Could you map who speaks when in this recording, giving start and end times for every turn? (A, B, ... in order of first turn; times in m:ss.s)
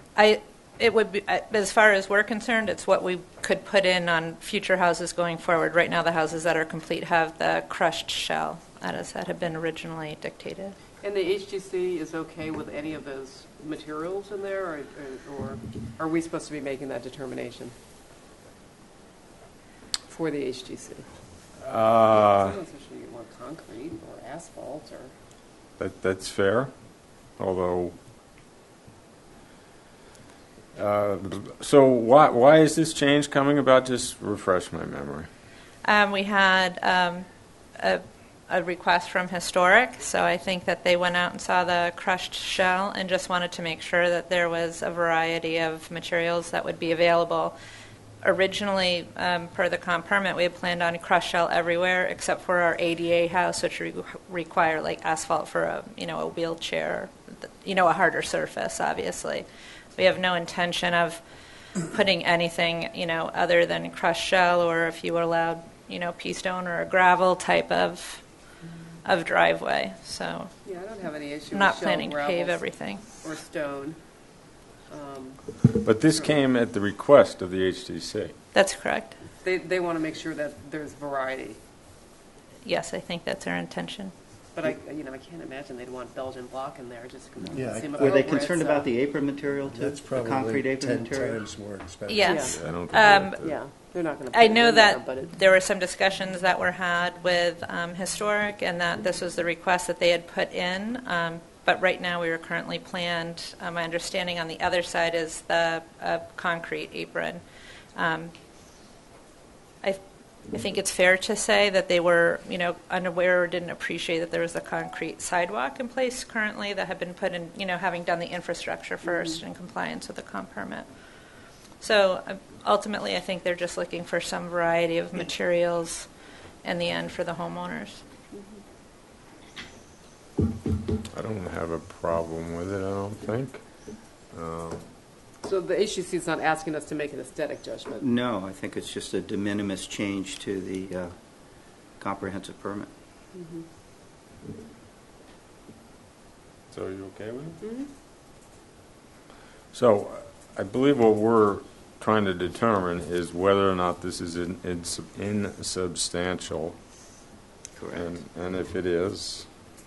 0:00.2-0:10.7 A
0:11.0-0:17.7 B
0:20.1-0:21.0 B
0:21.6-0:22.6 C
0:22.1-0:25.1 B
0:25.8-0:26.7 C
0:27.4-0:28.0 C
0:30.7-0:35.3 C
0:35.8-0:37.2 A
0:37.8-0:47.5 A
0:48.2-0:59.4 A
1:00.0-1:01.2 A
1:01.8-1:08.2 A
1:09.0-1:10.5 A
1:10.6-1:12.6 B
1:11.5-1:13.0 A
1:13.2-1:14.0 B
1:14.9-1:15.4 B
1:15.8-1:18.3 C
1:16.1-1:16.3 B
1:18.5-1:19.1 A
1:19.4-1:21.6 B
1:22.6-1:24.1 A
1:24.5-1:28.9 B
1:27.4-1:31.4 D
1:27.5-1:28.3 E
1:29.7-1:32.6 E
1:32.1-1:33.4 A
1:32.2-1:35.3 B
1:32.5-1:33.5 C
1:34.3-1:47.4 A
1:48.0-1:48.3 A
1:50.5-2:00.8 A
1:59.0-1:59.3 B
2:01.8-2:06.1 A
2:06.6-2:08.0 A
2:11.1-2:13.6 C
2:14.3-2:14.8 C
2:15.4-2:18.0 B
2:18.0-2:21.1 D
2:21.7-2:22.9 D
2:23.4-2:23.6 B
2:26.7-2:27.6 C
2:27.6-2:27.9 B
2:29.7-2:36.8 C
2:37.8-2:38.2 D
2:37.9-2:39.5 C